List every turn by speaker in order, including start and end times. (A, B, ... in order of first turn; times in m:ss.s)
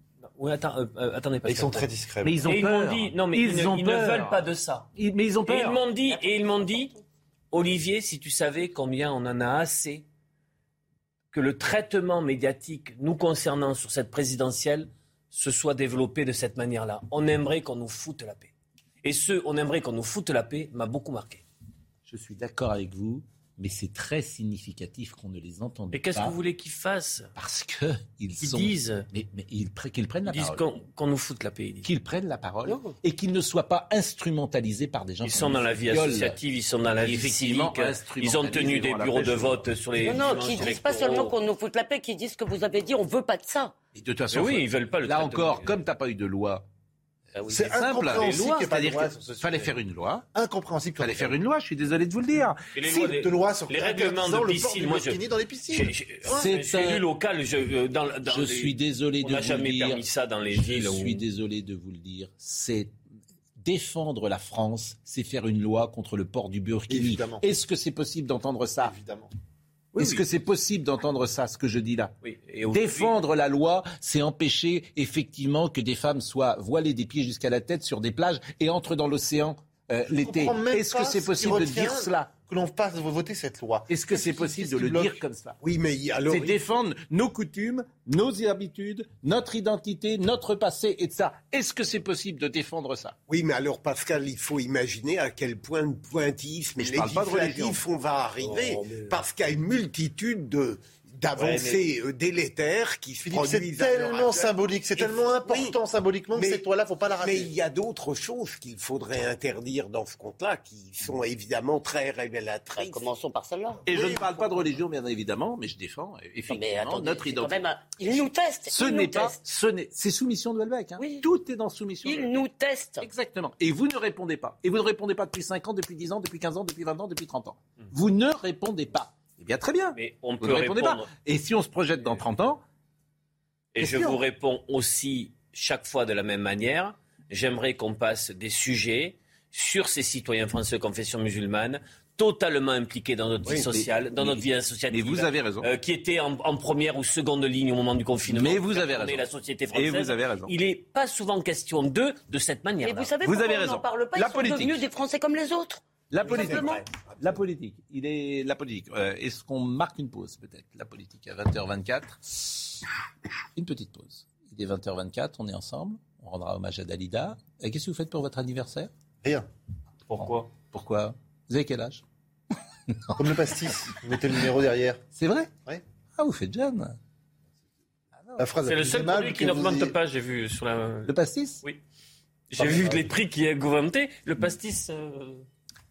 0:00.2-0:01.9 A
0:01.4-0:02.4 B
0:02.2-0:05.8 C
0:02.4-0:04.9 A
0:05.5-0:07.0 A
0:07.5-0:10.0 A
0:11.3-0:18.5 A
0:19.0-0:21.4 A
0:22.0-0:26.4 C
0:25.9-0:27.3 A
0:27.4-0:30.6 C
0:28.4-0:29.1 A
0:30.2-0:31.9 A
0:31.8-0:36.4 C
0:32.6-0:32.9 D
0:35.2-0:41.4 A
0:36.9-0:40.9 C
0:40.0-0:43.7 D
0:43.9-0:46.6 C
0:44.3-0:45.8 A
0:47.4-0:48.4 A
0:47.4-0:49.7 B
0:47.4-0:50.2 C
0:50.3-0:51.4 B
0:51.0-0:52.6 C
0:52.8-1:01.2 A
0:52.8-0:56.4 B
0:56.3-0:57.0 C
0:58.2-1:02.9 C
1:03.6-1:08.9 C
1:06.9-1:07.4 B
1:08.8-1:09.3 B
1:09.9-1:10.2 A
1:09.9-1:12.1 C
1:12.2-1:13.1 A
1:12.7-1:22.3 C
1:20.1-1:25.2 B
1:23.9-1:25.6 C
1:25.6-1:26.6 E
1:26.3-1:33.2 C
1:33.3-1:45.8 E
1:36.8-1:37.8 C
1:38.4-1:39.2 A
1:41.3-1:41.8 A
1:43.2-1:47.5 B
1:46.3-1:46.6 E
1:47.2-1:53.1 E
1:52.8-1:53.8 D
1:53.9-2:02.4 C
1:53.9-1:54.5 E
1:56.5-1:59.4 D
2:01.0-2:01.2 D
2:02.0-2:03.1 D
2:03.0-2:12.6 C
2:09.9-2:11.1 A
2:13.7-2:33.2 A
2:13.8-2:14.2 C
2:23.4-2:25.7 C
2:28.3-2:30.5 C
2:32.8-2:35.8 D
2:33.2-2:34.8 C
2:36.1-2:42.8 C
2:36.2-2:37.4 E
2:43.6-2:48.9 C
2:50.1-2:50.5 A
2:50.1-2:52.0 C
2:53.1-2:53.4 C
2:53.2-2:55.0 B
2:55.1-2:55.5 C
2:56.2-2:57.0 C
2:58.2-2:58.5 C
2:58.4-3:00.0 B
2:58.6-3:01.8 A
3:01.1-3:01.6 C
3:02.5-3:05.4 A
3:02.6-3:03.0 B